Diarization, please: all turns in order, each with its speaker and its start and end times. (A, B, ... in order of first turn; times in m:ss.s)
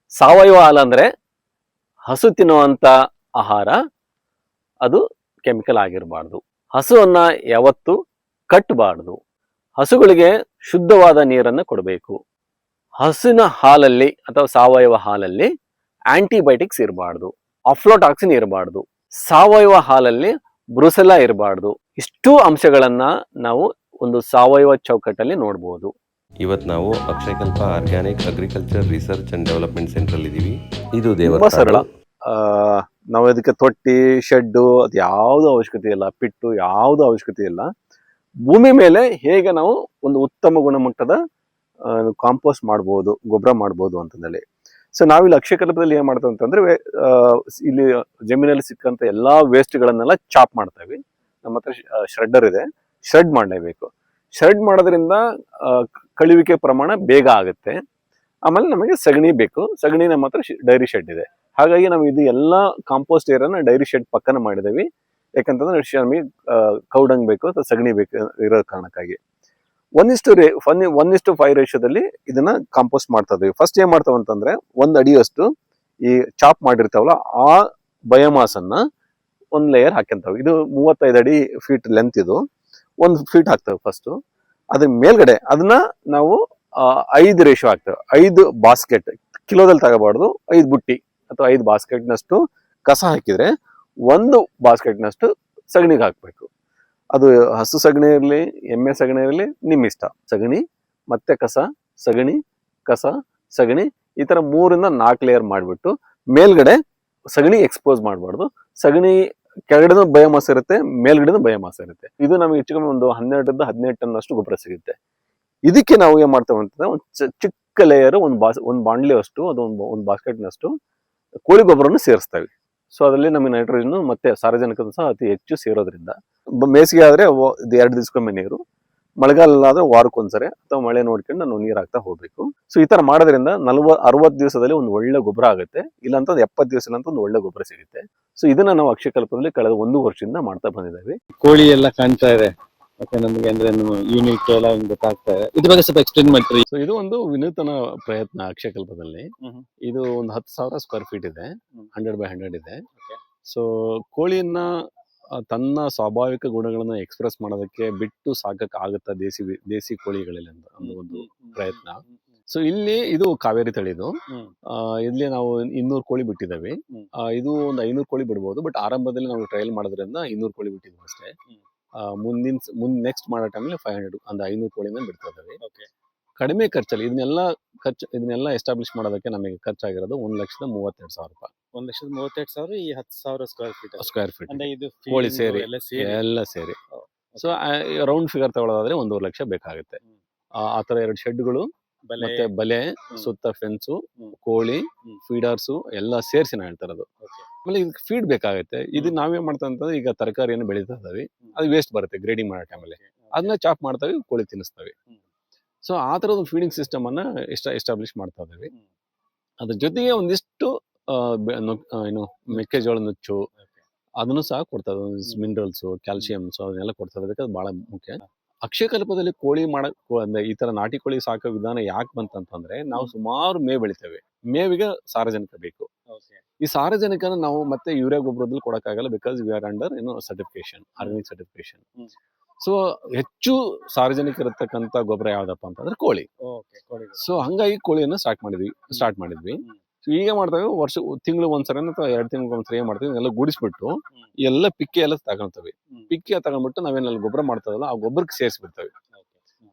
0:00.2-0:01.1 A
0:02.1-0:03.8 A
0:04.8-0:08.0 A
0:08.5-0:09.2 A
0:09.8-0:12.2 A
0:13.0-0:15.5 A
0:16.1-0:25.9 A
0:26.4-0:31.8 B
0:31.2-0:37.7 A
0:38.5-0:41.2 A
0:41.9-0:44.4 A
0:45.0-0:57.8 A
0:58.5-1:04.9 A
1:05.4-1:09.2 A
1:10.0-1:15.5 A
1:16.1-1:18.8 A
1:19.5-1:22.4 A
1:23.0-1:24.1 A
1:24.8-1:33.5 A
1:34.1-1:36.5 A
1:37.2-1:46.8 A
1:47.4-1:55.0 A
1:55.7-2:00.7 A
2:01.5-2:08.6 A
2:09.2-2:21.2 A
2:21.4-2:26.6 C
2:26.7-2:29.3 A
2:29.9-2:32.8 A
2:33.5-2:34.8 A
2:35.4-2:44.2 A
2:40.8-2:42.2 C
2:44.3-2:44.6 C
2:44.7-2:46.8 A
2:47.3-2:51.3 A
2:52.0-2:55.6 A
2:55.6-2:55.9 C
2:56.4-3:01.5 A
3:01.8-3:06.2 C
3:04.0-3:06.8 A
3:07.0-3:07.5 C
3:07.4-3:10.0 A
3:10.6-3:11.7 A
3:12.1-3:12.5 C
3:12.2-3:17.1 A
3:17.6-3:24.9 A
3:22.9-3:23.5 C
3:25.8-3:28.7 A
3:29.6-3:33.4 A
3:34.2-3:45.9 A
3:46.1-3:46.4 C
3:46.6-3:51.8 A
3:52.6-3:56.3 A
3:56.5-3:57.2 C
3:57.2-4:08.9 A